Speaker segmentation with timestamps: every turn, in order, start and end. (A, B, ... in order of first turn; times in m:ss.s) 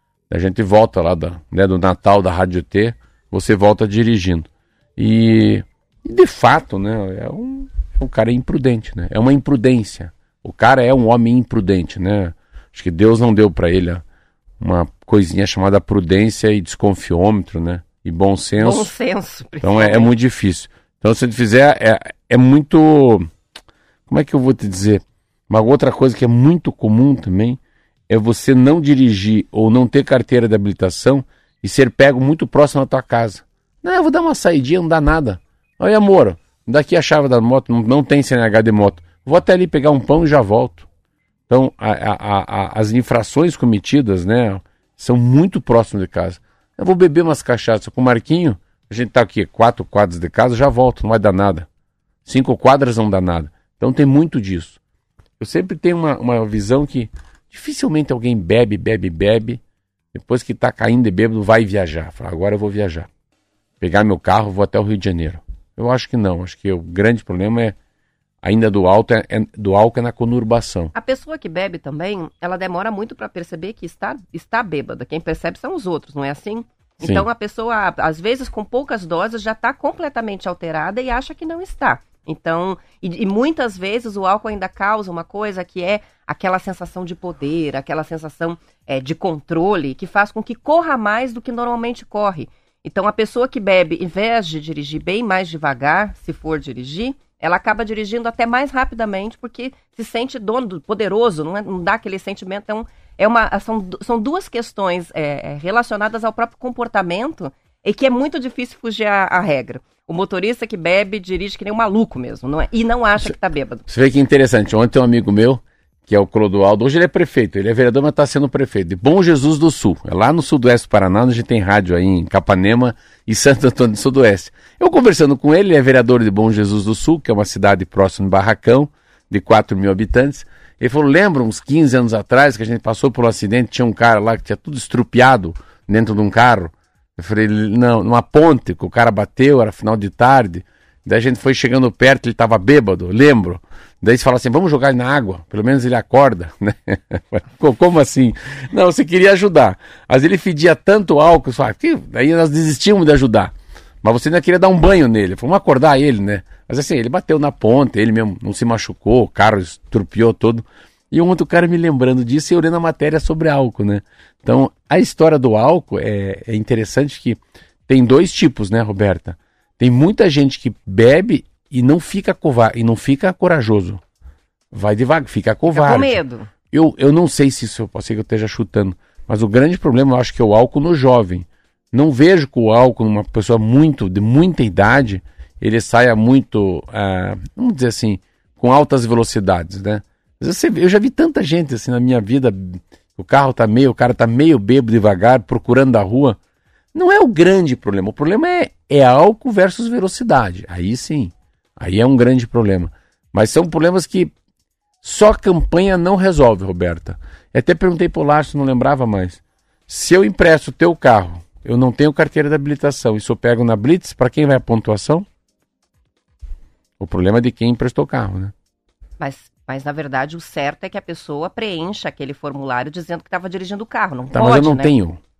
0:00.3-0:14.0 A
0:14.6-0:18.9 A
0:18.6-0:20.1 B
0:19.6-0:23.3 A
0:24.1-0:40.8 A
0:41.5-0:51.7 A
0:52.2-0:54.8 A
0:55.4-0:59.6 A
1:00.1-1:03.1 A
1:03.8-1:07.7 A
1:08.4-1:10.9 A
1:10.9-1:53.8 B
1:53.9-2:54.0 A
2:54.7-2:56.2 A
2:55.7-2:56.5 B
2:56.7-3:16.4 A
3:16.9-3:24.3 A
3:25.0-3:35.2 A
3:37.0-3:38.5 A
3:39.2-3:44.9 B
3:44.3-3:45.2 A